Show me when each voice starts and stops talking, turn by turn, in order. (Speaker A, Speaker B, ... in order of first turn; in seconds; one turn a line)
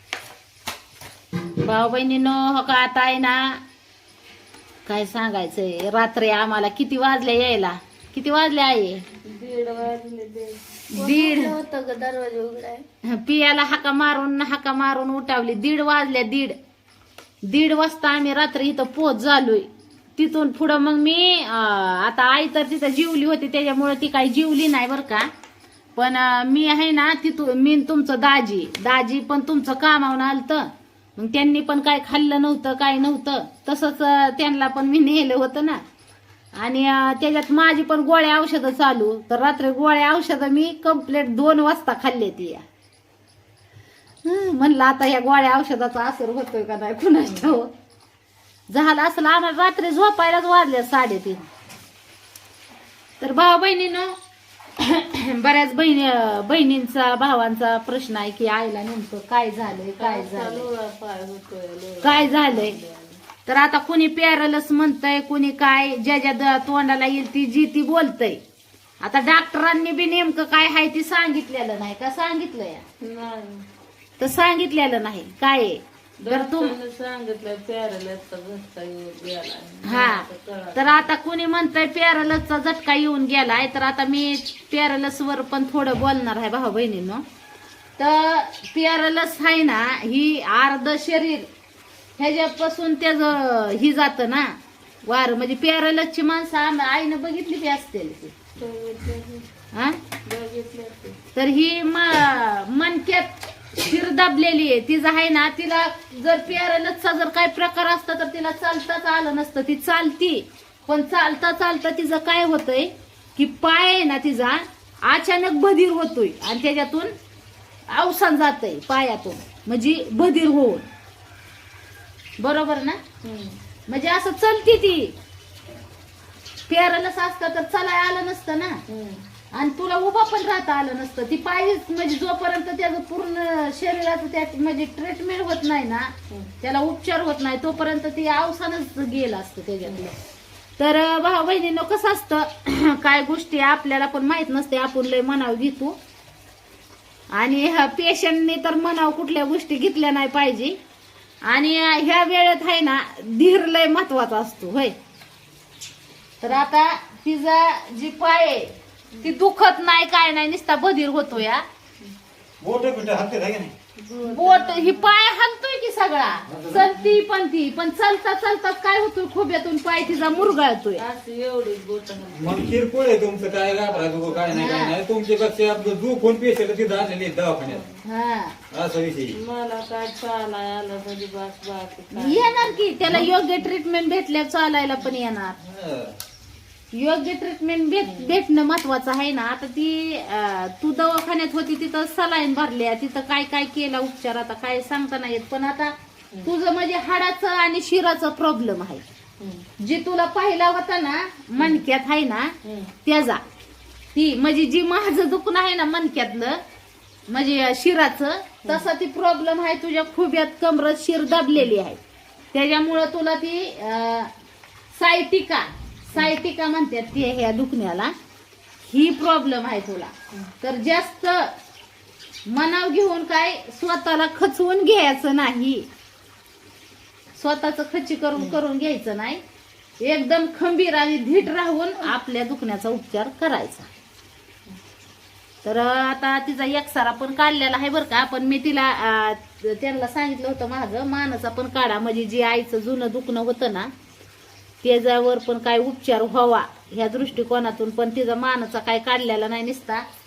Speaker A: 1.6-3.6
Speaker A: 4.8-9.0
Speaker B: 9.2-12.8
Speaker A: 10.9-11.6
Speaker A: 13.0-16.6
Speaker A: 17.4-25.3
Speaker A: 25.9-35.8
Speaker A: 36.5-42.6
Speaker A: 44.2-47.7
Speaker B: 47.2-47.5
Speaker A: 48.7-51.5
Speaker A: 53.2-54.1
Speaker A: 54.8-60.7
Speaker B: 60.0-63.2
Speaker A: 62.0-62.8
Speaker A: 63.5-68.4
Speaker A: 69.0-72.8
Speaker B: 73.0-73.6
Speaker A: 74.2-76.8
Speaker B: 76.2-81.1
Speaker A: 79.8-87.2
Speaker A: 88.0-91.5
Speaker A: 92.2-98.3
Speaker B: 98.6-99.5
Speaker A: 99.7-100.0
Speaker B: 100.2-101.2
Speaker A: 101.3-117.1
Speaker A: 117.9-120.9
Speaker A: 122.4-123.0
Speaker B: 123.2-123.6
Speaker A: 123.9-125.1
Speaker A: 126.7-128.8
Speaker B: 128.9-129.3
Speaker A: 129.5-140.2
Speaker A: 140.8-146.0
Speaker A: 147.3-150.8
Speaker A: 151.4-154.9
Speaker A: 156.4-161.6
Speaker C: 162.6-163.7
Speaker B: 164.0-165.1
Speaker A: 164.2-171.0
Speaker C: 166.5-166.9
Speaker B: 170.9-172.8
Speaker C: 172.3-177.8
Speaker B: 173.8-174.5
Speaker A: 174.5-174.9
Speaker B: 177.6-178.0
Speaker A: 178.0-178.6
Speaker C: 178.7-179.3
Speaker B: 179.3-183.2
Speaker A: 182.1-185.6
Speaker C: 185.6-186.2
Speaker A: 186.9-195.9
Speaker B: 188.0-188.4
Speaker A: 196.4-199.0
Speaker B: 199.4-199.7
Speaker A: 199.8-203.4
Speaker B: 201.6-201.8
Speaker B: 202.6-202.9
Speaker A: 204.1-206.6
Speaker A: 207.3-212.0
Speaker B: 208.6-208.9
Speaker A: 212.5-214.3
Speaker A: 214.9-218.1
Speaker A: 218.8-221.5
Speaker A: 222.5-225.8
Speaker A: 227.3-229.4
Speaker A: 230.0-233.9
Speaker A: 235.6-243.9
Speaker A: 244.8-250.0